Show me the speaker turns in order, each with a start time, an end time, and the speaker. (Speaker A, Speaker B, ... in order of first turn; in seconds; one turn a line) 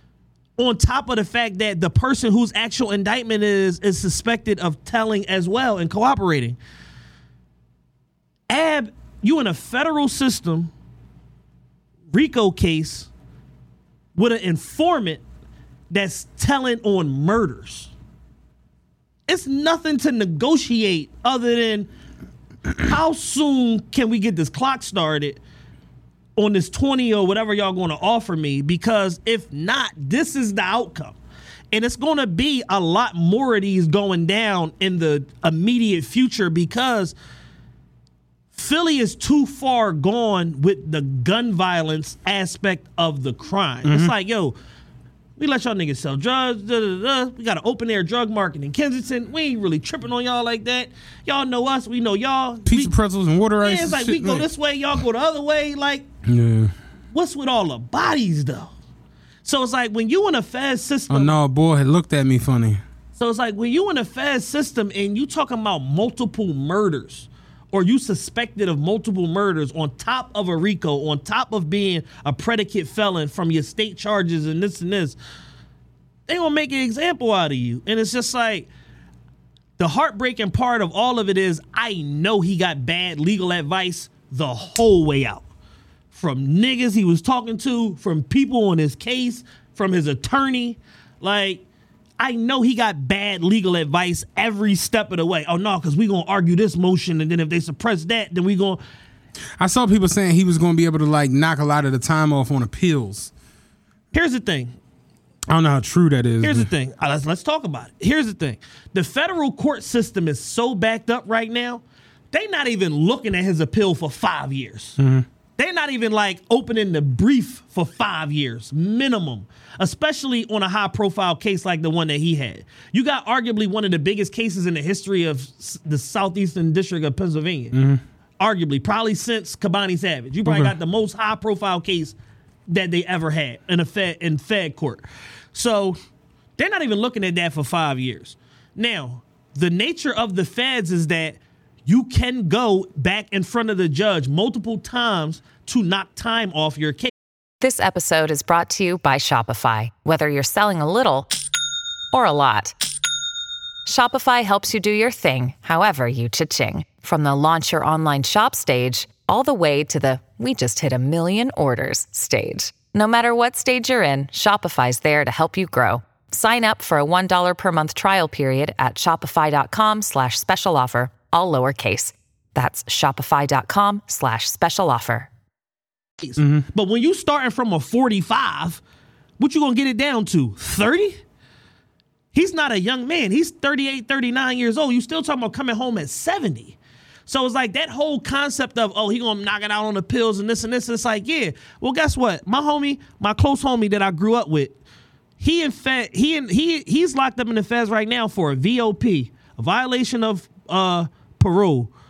Speaker A: 0.6-6.6
Speaker A: 8.5-10.7
Speaker A: 12.1-13.1
Speaker A: 14.2-15.2
Speaker A: 15.9-17.9
Speaker A: 19.3-21.9
Speaker A: 22.8-25.4
Speaker A: 26.4-31.1
Speaker A: 31.7-37.1
Speaker A: 38.5-44.5
Speaker B: 43.8-44.1
Speaker A: 45.4-52.9
Speaker B: 52.6-54.5
Speaker A: 53.6-56.0
Speaker B: 56.2-56.7
Speaker A: 57.1-58.7
Speaker A: 59.4-61.4
Speaker B: 61.1-62.8
Speaker A: 63.2-75.2
Speaker A: 76.3-78.7
Speaker A: 79.8-85.4
Speaker A: 86.1-91.6
Speaker A: 92.2-98.8
Speaker B: 99.6-103.3
Speaker A: 104.1-104.8
Speaker B: 105.5-106.7
Speaker A: 106.4-115.0
Speaker B: 115.0-115.2
Speaker A: 115.6-127.8
Speaker B: 127.7-128.0
Speaker A: 128.4-132.1
Speaker B: 130.4-130.7
Speaker A: 132.7-136.0
Speaker A: 136.6-147.1
Speaker C: 147.6-151.3
Speaker C: 152.1-152.7
Speaker C: 153.8-175.3
Speaker A: 176.2-178.8
Speaker B: 176.4-176.7
Speaker A: 179.4-181.2
Speaker A: 182.3-186.8
Speaker A: 187.3-194.8
Speaker A: 195.4-201.9